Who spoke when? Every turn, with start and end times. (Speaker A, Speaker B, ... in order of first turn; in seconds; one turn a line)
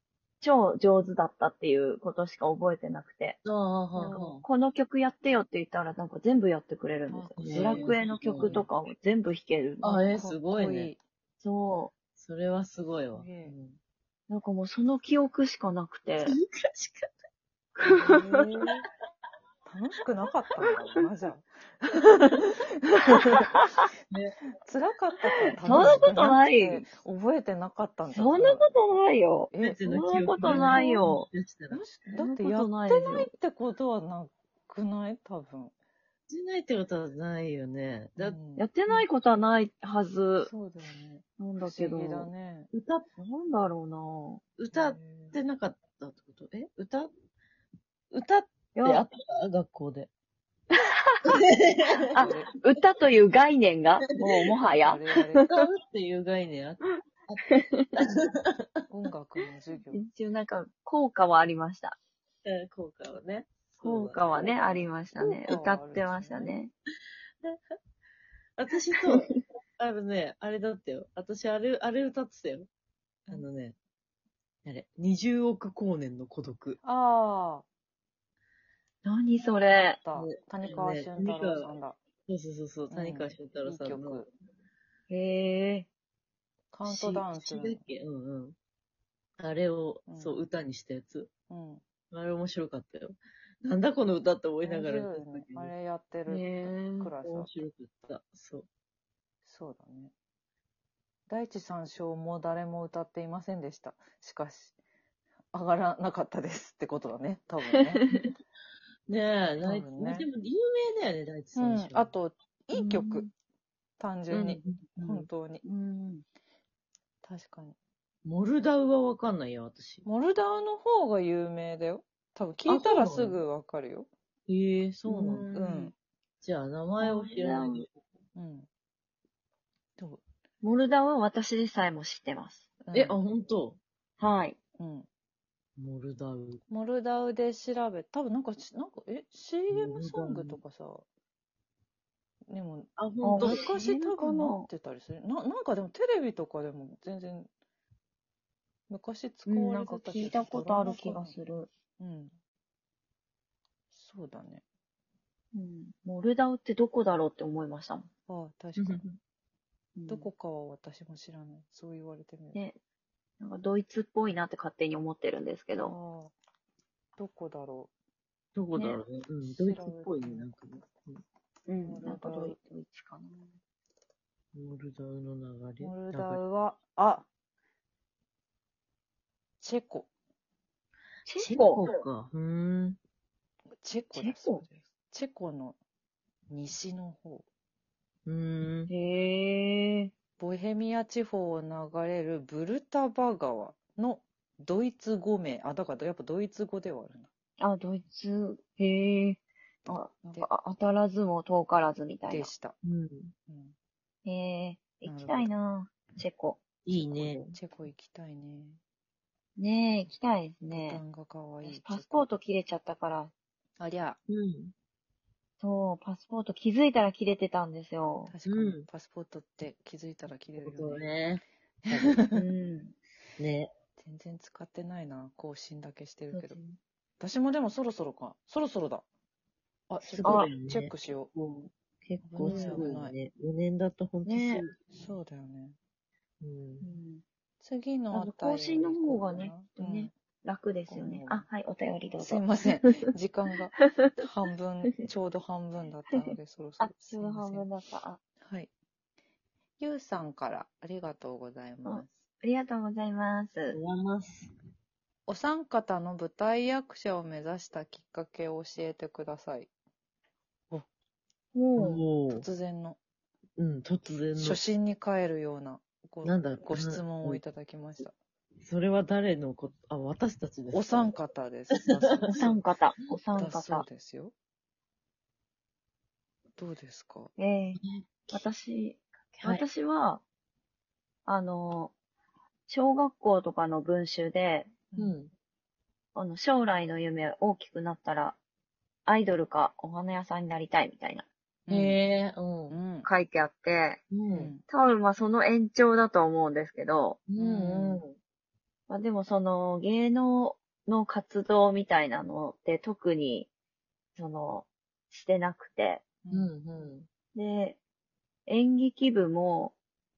Speaker A: 0.4-3.4
Speaker B: 3.4-4.4
Speaker A: 4.0-10.0
Speaker C: 7.1-8.7
Speaker B: 7.4-8.6
Speaker B: 9.8-10.9
Speaker C: 9.9-11.0
Speaker A: 11.4-11.9
Speaker B: 12.2-13.8
Speaker C: 13.1-13.5
Speaker A: 14.3-16.4
Speaker B: 16.2-17.1
Speaker A: 17.8-18.5
Speaker B: 17.9-18.7
Speaker C: 18.0-18.8
Speaker C: 19.6-23.5
Speaker A: 20.7-21.0
Speaker A: 23.3-23.8
Speaker B: 24.1-24.4
Speaker C: 24.6-28.7
Speaker A: 25.4-26.9
Speaker B: 25.6-26.2
Speaker A: 28.1-31.3
Speaker C: 29.5-29.8
Speaker B: 29.6-31.8
Speaker C: 30.4-31.1
Speaker C: 31.7-35.7
Speaker A: 32.1-33.3
Speaker B: 36.3-38.4
Speaker C: 38.2-38.6
Speaker A: 38.6-40.5
Speaker C: 40.4-42.7
Speaker A: 41.4-42.3
Speaker B: 42.7-43.0
Speaker A: 43.2-44.4
Speaker B: 44.6-47.1
Speaker C: 44.7-45.4
Speaker B: 48.1-50.1
Speaker A: 48.8-49.0
Speaker B: 51.2-52.0
Speaker A: 52.1-55.6
Speaker C: 52.1-52.5
Speaker C: 54.6-55.5
Speaker B: 55.5-58.6
Speaker A: 57.5-57.9
Speaker C: 58.9-60.0
Speaker A: 59.9-62.0
Speaker B: 62.4-64.9
Speaker A: 63.8-66.7
Speaker C: 65.2-66.5
Speaker B: 68.6-72.7
Speaker B: 73.3-73.8
Speaker B: 74.6-76.8
Speaker C: 76.8-77.7
Speaker A: 79.0-80.0
Speaker C: 79.9-82.0
Speaker B: 80.1-81.7
Speaker B: 82.3-84.3
Speaker C: 82.9-84.3
Speaker A: 85.1-85.9
Speaker C: 86.7-87.8
Speaker B: 86.8-88.5
Speaker B: 89.4-91.3
Speaker C: 90.1-90.3
Speaker C: 91.5-91.8
Speaker B: 92.1-95.7
Speaker C: 94.6-97.5
Speaker A: 96.3-97.1
Speaker B: 97.2-98.7
Speaker C: 99.4-100.1
Speaker C: 101.3-104.7
Speaker C: 105.5-108.0
Speaker A: 107.6-108.3
Speaker B: 109.1-112.1
Speaker C: 109.6-110.3
Speaker C: 111.5-113.3
Speaker A: 112.7-113.3
Speaker C: 114.0-115.6
Speaker B: 114.3-115.3
Speaker A: 115.6-116.2
Speaker C: 117.2-117.8
Speaker B: 118.2-120.0
Speaker C: 120.0-124.1
Speaker B: 122.6-123.4
Speaker B: 124.5-125.5
Speaker A: 125.1-125.9
Speaker C: 125.5-126.0
Speaker B: 126.4-127.9
Speaker A: 127.0-127.8
Speaker C: 128.3-128.7
Speaker A: 130.6-132.7
Speaker C: 132.8-133.2
Speaker B: 132.9-133.8
Speaker A: 134.2-134.6
Speaker C: 134.8-135.1
Speaker B: 135.8-136.6
Speaker C: 136.7-141.0
Speaker B: 139.7-140.6
Speaker C: 142.5-147.5
Speaker B: 143.0-143.8
Speaker A: 143.2-144.7
Speaker C: 148.9-151.3
Speaker A: 149.5-151.7
Speaker C: 152.0-152.3
Speaker C: 153.9-154.6
Speaker A: 155.5-158.1
Speaker C: 158.3-159.1
Speaker B: 158.8-159.1
Speaker A: 159.9-160.3
Speaker C: 160.1-162.6
Speaker A: 163.4-165.9
Speaker C: 165.7-166.3
Speaker C: 167.2-167.9
Speaker B: 168.5-171.2
Speaker C: 169.4-170.5
Speaker A: 171.7-173.5
Speaker C: 171.8-172.6
Speaker B: 174.5-176.4
Speaker C: 175.8-177.3
Speaker C: 179.6-180.1
Speaker A: 181.3-182.0
Speaker B: 181.4-183.0
Speaker C: 183.8-185.8
Speaker A: 184.1-184.6
Speaker C: 186.5-187.4
Speaker B: 188.2-188.9
Speaker A: 188.9-190.1
Speaker C: 190.4-197.3
Speaker A: 197.6-202.5
Speaker C: 199.8-200.5
Speaker C: 202.3-202.7
Speaker B: 202.8-203.3
Speaker C: 203.5-203.7
Speaker A: 204.2-206.6
Speaker C: 205.0-205.5
Speaker B: 206.8-207.6
Speaker C: 206.9-208.8
Speaker A: 209.6-211.0
Speaker C: 210.7-212.3
Speaker A: 211.6-213.3
Speaker C: 213.8-214.2
Speaker B: 214.3-214.7
Speaker A: 215.6-218.3
Speaker C: 218.3-221.1
Speaker B: 218.5-218.9
Speaker B: 220.6-222.2
Speaker C: 221.9-222.4
Speaker A: 222.3-222.9
Speaker B: 223.4-223.7
Speaker C: 224.0-226.6
Speaker A: 226.3-226.8
Speaker C: 227.2-229.0
Speaker C: 229.9-231.3
Speaker B: 230.0-235.1
Speaker A: 230.2-230.5
Speaker C: 232.2-233.2
Speaker A: 232.4-232.9
Speaker A: 234.2-234.6
Speaker C: 234.9-235.8
Speaker B: 236.4-236.9
Speaker A: 236.8-237.2
Speaker C: 237.6-240.1
Speaker A: 238.1-242.8
Speaker C: 240.9-241.4
Speaker C: 242.2-247.7
Speaker A: 243.8-244.1
Speaker A: 246.1-248.2
Speaker C: 248.4-248.7
Speaker C: 249.8-252.1
Speaker A: 251.8-253.8
Speaker B: 253.7-254.5
Speaker C: 255.3-259.7
Speaker A: 261.5-262.0
Speaker B: 261.8-262.4
Speaker C: 262.3-263.0
Speaker B: 263.6-264.6
Speaker C: 264.4-268.1
Speaker B: 266.2-267.4
Speaker B: 268.6-271.2
Speaker C: 270.7-272.6
Speaker B: 272.0-272.4
Speaker A: 272.3-273.9
Speaker C: 273.3-274.3
Speaker C: 276.6-277.3
Speaker A: 277.4-277.8
Speaker B: 277.8-278.4
Speaker A: 278.3-280.2
Speaker B: 279.3-279.6
Speaker A: 281.2-281.9
Speaker A: 282.7-284.7
Speaker B: 285.0-285.3
Speaker A: 286.1-288.4
Speaker A: 289.1-291.3
Speaker C: 291.7-292.0
Speaker B: 291.7-292.8
Speaker C: 292.7-293.1
Speaker A: 293.0-294.0
Speaker B: 294.1-294.6
Speaker C: 294.3-294.6
Speaker A: 294.7-297.2
Speaker B: 297.3-298.1
Speaker C: 297.4-298.0
Speaker A: 298.9-303.5
Speaker A: 304.1-306.0
Speaker C: 306.2-306.5
Speaker B: 306.3-307.1
Speaker A: 307.3-307.8
Speaker A: 308.5-309.8